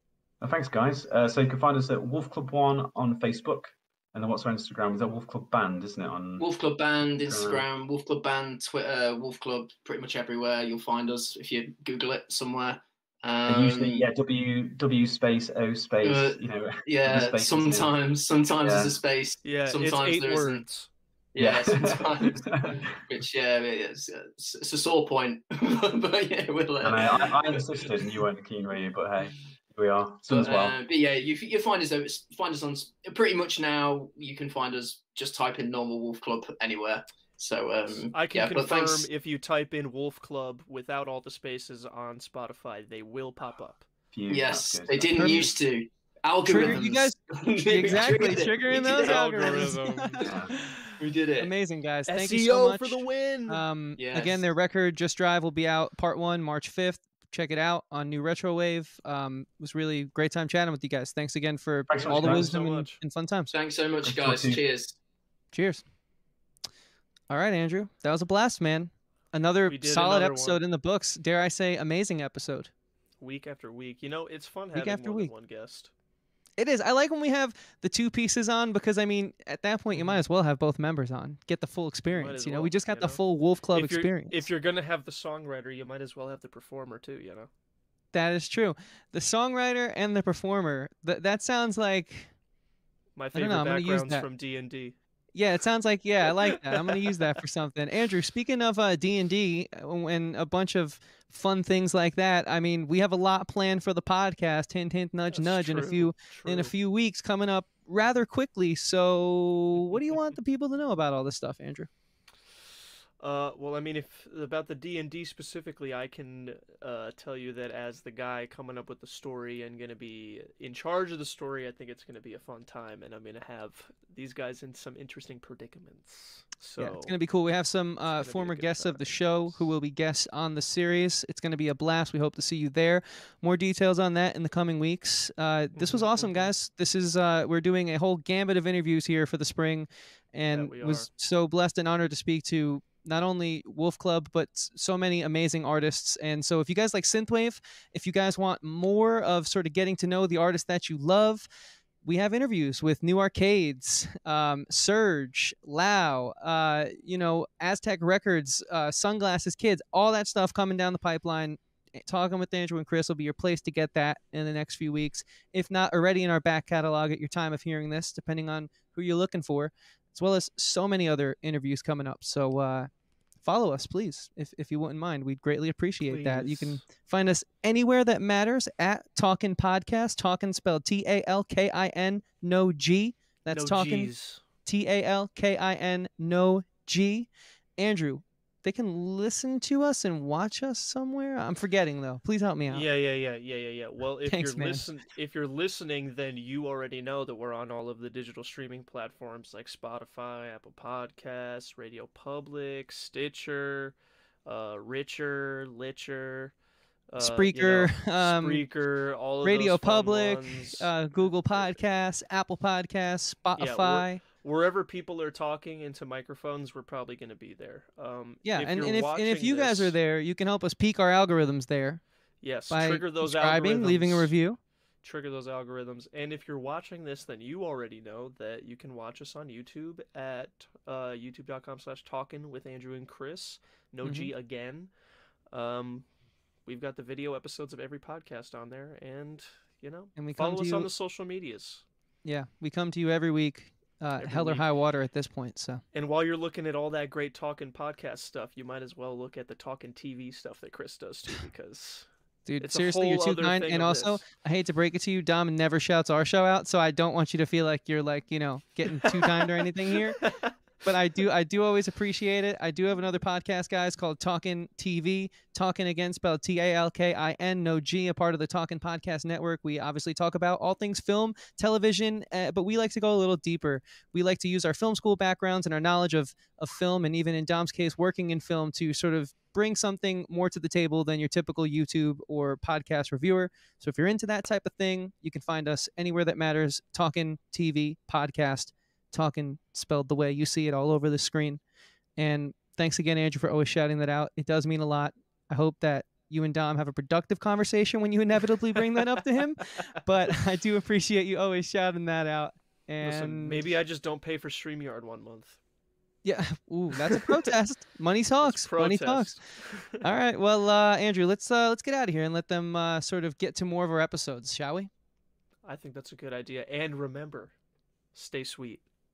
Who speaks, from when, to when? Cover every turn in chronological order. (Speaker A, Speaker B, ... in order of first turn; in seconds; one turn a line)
Speaker A: 0.4-6.5
Speaker B: 6.4-14.1
Speaker A: 7.2-7.6
Speaker A: 13.5-17.9
Speaker B: 16.0-20.6
Speaker A: 18.6-19.0
Speaker C: 19.4-20.9
Speaker B: 21.4-28.1
Speaker A: 21.4-22.9
Speaker A: 26.8-30.7
Speaker B: 30.3-39.1
Speaker C: 37.9-43.9
Speaker A: 44.1-45.5
Speaker B: 44.3-50.3
Speaker D: 45.2-45.5
Speaker D: 46.5-63.5
Speaker C: 48.9-50.3
Speaker A: 50.2-50.5
Speaker B: 51.0-51.5
Speaker C: 52.1-53.6
Speaker B: 54.0-54.5
Speaker A: 61.9-62.5
Speaker C: 62.0-63.0
Speaker B: 63.5-65.0
Speaker A: 64.0-64.6
Speaker D: 65.5-65.9
Speaker D: 67.3-72.7
Speaker C: 69.7-70.6
Speaker C: 73.2-75.9
Speaker D: 74.8-75.3
Speaker D: 76.6-84.5
Speaker C: 79.9-80.2
Speaker C: 82.1-87.5
Speaker D: 88.1-92.3
Speaker C: 93.2-95.0
Speaker D: 93.3-94.3
Speaker D: 95.3-111.9
Speaker C: 96.7-97.2
Speaker C: 105.3-106.7
Speaker C: 113.2-127.2
Speaker D: 126.8-151.5
Speaker C: 128.1-129.7
Speaker C: 135.7-136.5
Speaker C: 140.5-141.1
Speaker D: 152.0-172.9
Speaker D: 173.4-192.9
Speaker C: 176.0-176.9
Speaker C: 183.5-184.4
Speaker C: 192.7-211.8
Speaker D: 194.3-194.9
Speaker D: 207.2-208.8
Speaker D: 209.4-214.2
Speaker C: 213.6-220.0
Speaker D: 218.4-222.2
Speaker C: 222.4-224.4
Speaker D: 222.7-224.6
Speaker C: 225.0-236.1
Speaker D: 234.0-234.3
Speaker C: 236.7-241.9
Speaker D: 240.2-240.9
Speaker D: 242.2-245.8
Speaker C: 244.2-244.7
Speaker C: 245.9-254.2
Speaker D: 252.5-291.6
Speaker C: 260.2-260.5
Speaker D: 292.2-303.6
Speaker C: 303.0-305.6
Speaker D: 306.2-314.9
Speaker C: 308.4-310.0
Speaker C: 315.6-317.6
Speaker C: 318.1-318.9